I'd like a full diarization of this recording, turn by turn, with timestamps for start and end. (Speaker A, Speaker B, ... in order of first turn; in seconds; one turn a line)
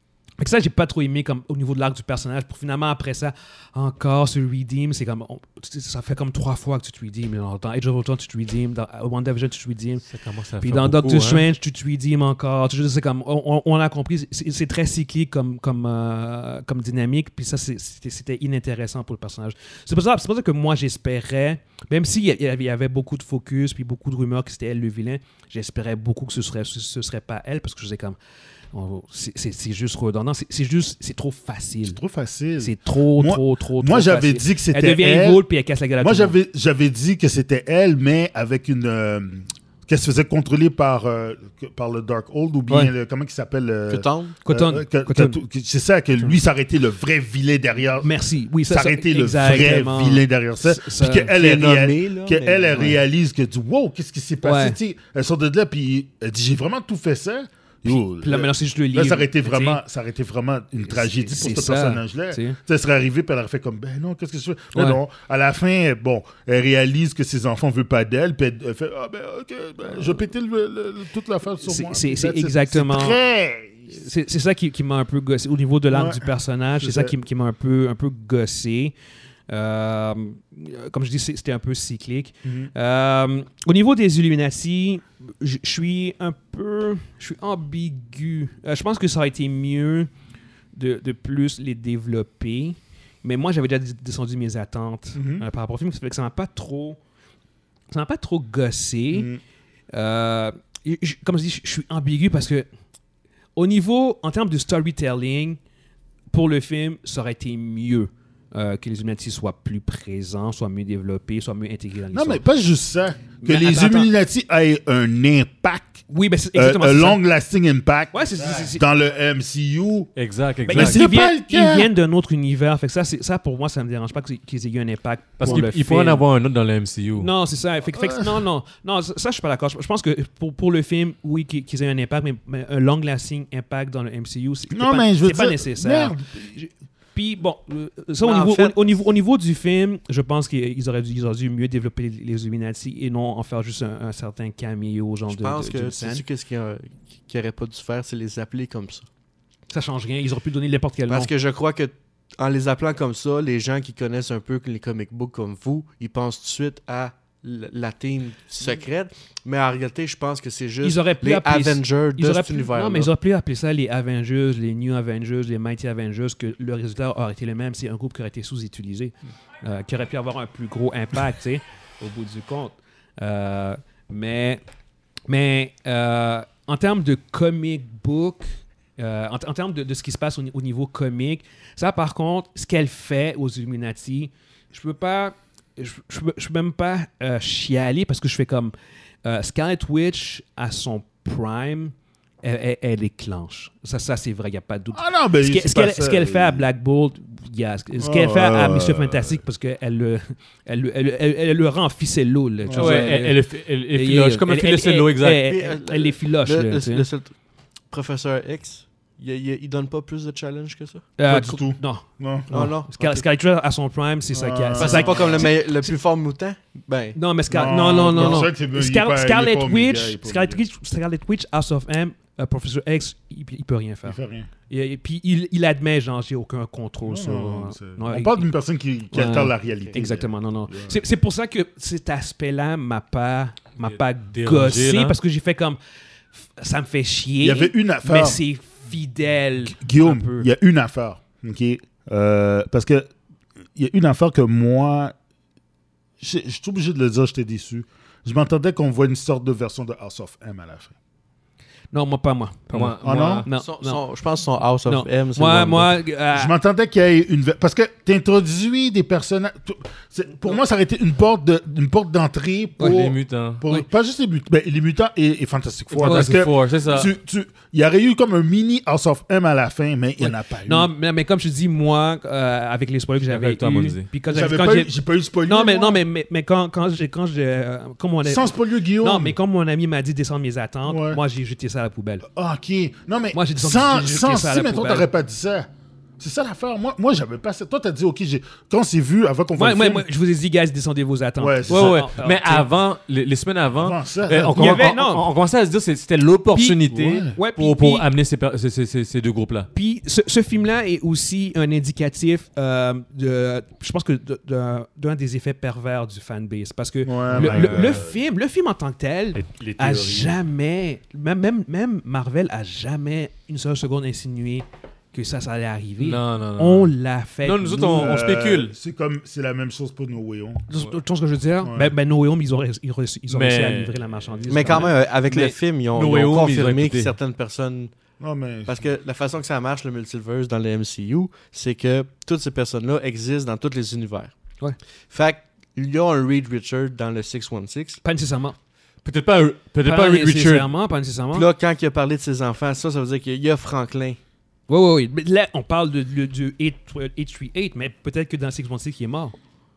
Speaker A: 0.4-10.1
Speaker B: 10.1-11.5
Speaker A: 10.6-28.2
Speaker A: 28.7-32.0
Speaker C: 31.9-35.4
Speaker A: 32.6-36.4
Speaker C: 36.0-48.1
Speaker A: 42.7-42.9
Speaker D: 43.9-44.4
Speaker A: 44.5-45.4
Speaker A: 48.0-51.3
Speaker C: 48.7-73.9
Speaker D: 51.3-53.0
Speaker A: 54.4-54.8
Speaker A: 57.9-59.8
Speaker A: 60.8-62.6
Speaker A: 64.7-65.0
Speaker A: 71.6-73.2
Speaker A: 73.9-78.9
Speaker C: 75.9-77.1
Speaker A: 79.5-90.1
Speaker C: 82.4-82.7
Speaker A: 90.8-97.0
Speaker C: 95.2-95.4
Speaker A: 97.9-99.3
Speaker C: 99.1-99.4
Speaker A: 99.9-102.7
Speaker A: 103.6-105.6
Speaker A: 106.3-112.4
Speaker C: 112.1-120.1
Speaker A: 113.4-114.1
Speaker A: 116.1-117.2
Speaker A: 118.1-118.8
Speaker B: 120.2-121.0
Speaker A: 120.7-126.2
Speaker C: 120.7-121.9
Speaker B: 125.4-127.3
Speaker A: 127.2-146.2
Speaker C: 127.9-128.4
Speaker C: 134.7-136.3
Speaker D: 138.2-138.9
Speaker D: 145.3-149.1
Speaker A: 149.7-151.3
Speaker D: 151.1-163.1
Speaker A: 160.8-174.6
Speaker A: 175.3-207.1
Speaker C: 194.9-196.7
Speaker C: 198.0-199.4
Speaker C: 202.6-203.1
Speaker B: 202.7-205.4
Speaker D: 205.4-211.1
Speaker A: 211.2-215.9
Speaker C: 211.3-212.5
Speaker D: 212.5-213.2
Speaker C: 214.3-215.5
Speaker D: 214.8-217.2
Speaker A: 217.1-228.5
Speaker C: 217.5-220.6
Speaker D: 218.1-218.4
Speaker C: 224.1-224.5
Speaker C: 227.1-231.0
Speaker A: 229.1-235.8
Speaker B: 233.8-235.2
Speaker A: 236.3-240.5
Speaker C: 237.4-238.4
Speaker C: 239.6-243.1
Speaker C: 243.8-245.1
Speaker C: 246.2-250.9
Speaker A: 251.9-254.0
Speaker B: 252.7-253.5
Speaker C: 253.0-253.5
Speaker D: 253.5-256.0
Speaker A: 254.9-256.5
Speaker C: 256.3-270.9
Speaker B: 262.8-263.6
Speaker B: 265.9-267.1
Speaker A: 266.0-266.4
Speaker A: 270.2-274.9
Speaker B: 273.3-274.1
Speaker C: 274.3-276.0
Speaker A: 275.4-282.2
Speaker C: 278.2-279.4
Speaker C: 280.9-281.2
Speaker C: 282.2-285.7
Speaker A: 283.3-285.1
Speaker C: 286.2-290.1
Speaker A: 289.6-292.6
Speaker C: 291.4-292.0
Speaker B: 291.7-299.7
Speaker C: 293.8-294.9
Speaker A: 294.6-295.2
Speaker A: 296.5-298.1
Speaker C: 296.9-297.4
Speaker A: 299.7-318.1
Speaker C: 307.1-308.1
Speaker B: 307.3-308.1
Speaker B: 309.4-310.4
Speaker B: 316.0-318.7
Speaker C: 318.0-320.7
Speaker A: 320.7-324.9
Speaker C: 321.6-321.9
Speaker B: 323.3-327.1
Speaker D: 324.5-327.9
Speaker C: 328.2-328.8
Speaker D: 328.6-334.4
Speaker D: 335.1-338.0
Speaker A: 338.0-338.6
Speaker B: 339.0-340.7
Speaker A: 339.8-341.5
Speaker D: 341.3-344.2
Speaker A: 344.7-349.4